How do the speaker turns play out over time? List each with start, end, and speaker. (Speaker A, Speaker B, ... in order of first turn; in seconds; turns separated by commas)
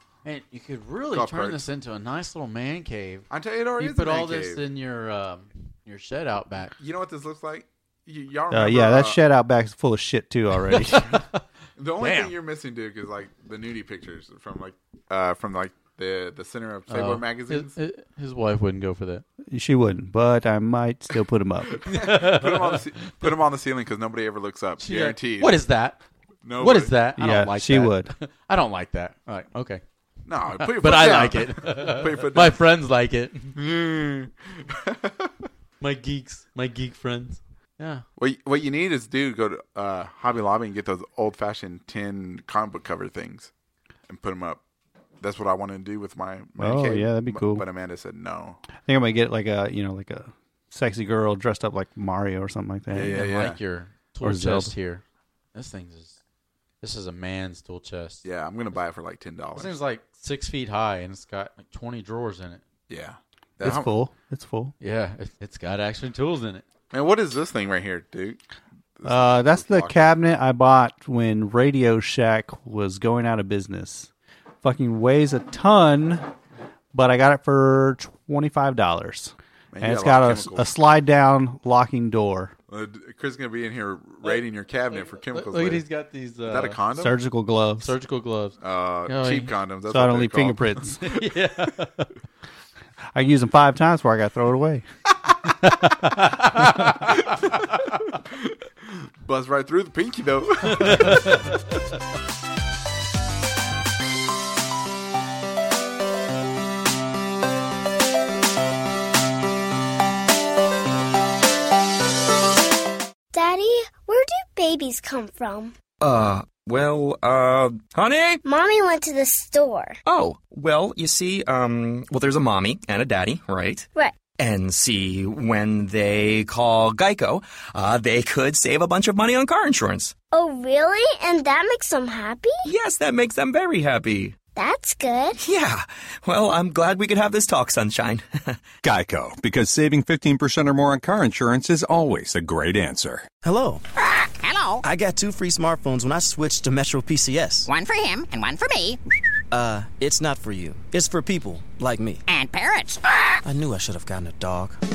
Speaker A: 0.2-3.2, Speaker B: 1.1-1.6, Speaker B: 3.3-4.6, Speaker A: 3.8-6.7, Speaker B: 6.8-9.2, Speaker C: 8.5-11.0, Speaker A: 10.6-11.4, Speaker B: 11.8-17.7, Speaker A: 12.0-12.3, Speaker A: 16.9-19.2, Speaker C: 19.5-21.8, Speaker B: 21.8-25.6, Speaker A: 21.8-22.8, Speaker A: 24.8-26.0, Speaker B: 26.4-26.9, Speaker A: 26.6-29.8, Speaker C: 27.2-28.1, Speaker B: 30.3-32.6, Speaker A: 30.6-33.6, Speaker B: 33.5-35.3, Speaker A: 35.8-38.0, Speaker B: 38.2-43.5, Speaker B: 44.1-44.6, Speaker B: 45.2-48.6, Speaker C: 46.6-47.6, Speaker C: 48.8-53.2, Speaker A: 52.9-55.0, Speaker B: 52.9-53.6, Speaker C: 54.2-54.7, Speaker A: 55.5-56.2, Speaker A: 56.8-58.2, Speaker B: 58.2-59.7, Speaker A: 59.5-62.6, Speaker B: 62.9-63.9, Speaker C: 63.6-64.7, Speaker A: 64.8-66.6, Speaker B: 66.9-68.4, Speaker B: 69.0-70.1, Speaker C: 69.0-74.1, Speaker C: 74.6-76.2, Speaker C: 76.9-82.5, Speaker B: 79.7-80.7, Speaker B: 82.7-85.8, Speaker A: 84.9-87.1, Speaker B: 86.5-87.1, Speaker C: 87.0-87.9, Speaker A: 87.8-89.5, Speaker B: 88.6-91.3, Speaker C: 89.9-91.0, Speaker A: 91.0-92.1, Speaker C: 93.1-94.8, Speaker A: 95.8-98.0, Speaker B: 98.2-101.4, Speaker A: 100.6-101.6, Speaker D: 113.3-115.7, Speaker E: 116.0-118.4, Speaker D: 118.4-120.0, Speaker E: 120.0-130.1, Speaker D: 123.9-124.3, Speaker D: 130.3-132.7, Speaker E: 132.7-134.4, Speaker D: 134.5-135.4, Speaker E: 135.4-138.6, Speaker F: 138.8-143.3, Speaker G: 143.4-143.8, Speaker H: 144.0-144.8, Speaker G: 144.8-147.7, Speaker H: 147.7-149.0, Speaker G: 149.5-152.2, Speaker H: 152.3-153.3, Speaker G: 153.4-154.8